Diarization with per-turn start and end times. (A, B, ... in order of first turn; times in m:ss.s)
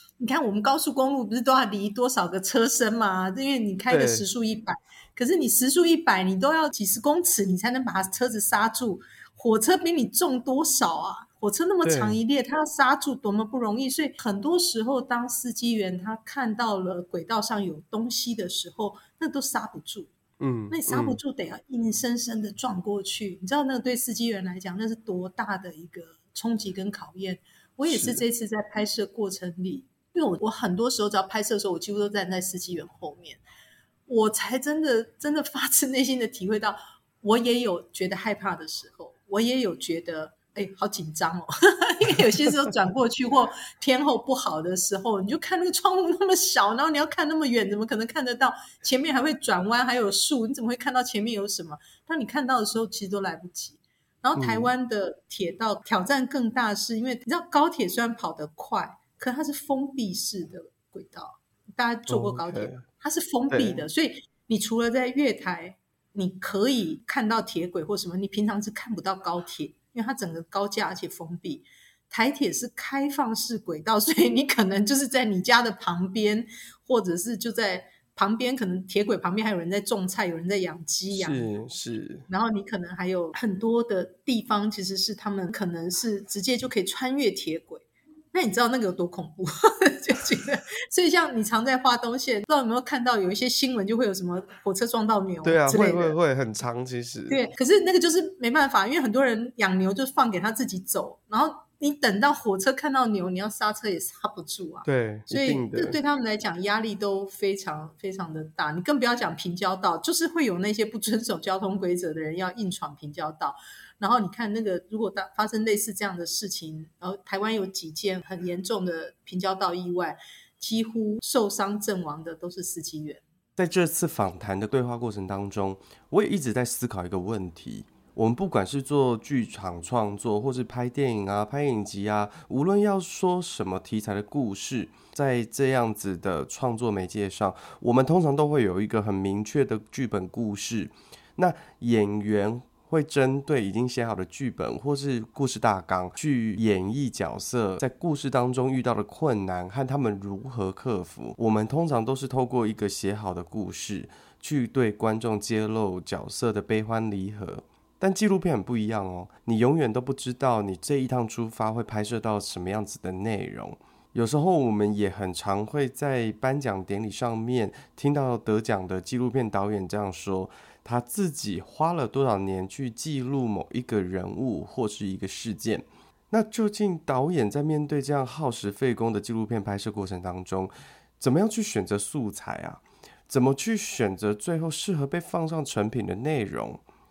0:00.2-0:20.1 A
0:03.9-0:04.2 B
0:11.8-0:12.2 B
0:20.4-0:21.2 B
0:20.7-0:33.4 A
0:27.9-0:28.2 B
0:34.1-1:21.7 A
0:42.1-0:42.5 B
0:54.4-0:54.7 B
1:02.1-1:02.8 B
1:03.5-1:03.9 B
1:21.1-1:22.2 B
1:22.2-1:36.2 A
1:35.4-1:37.4 B
1:37.3-2:03.2 A
1:44.8-1:46.0 B
2:03.6-3:06.8 B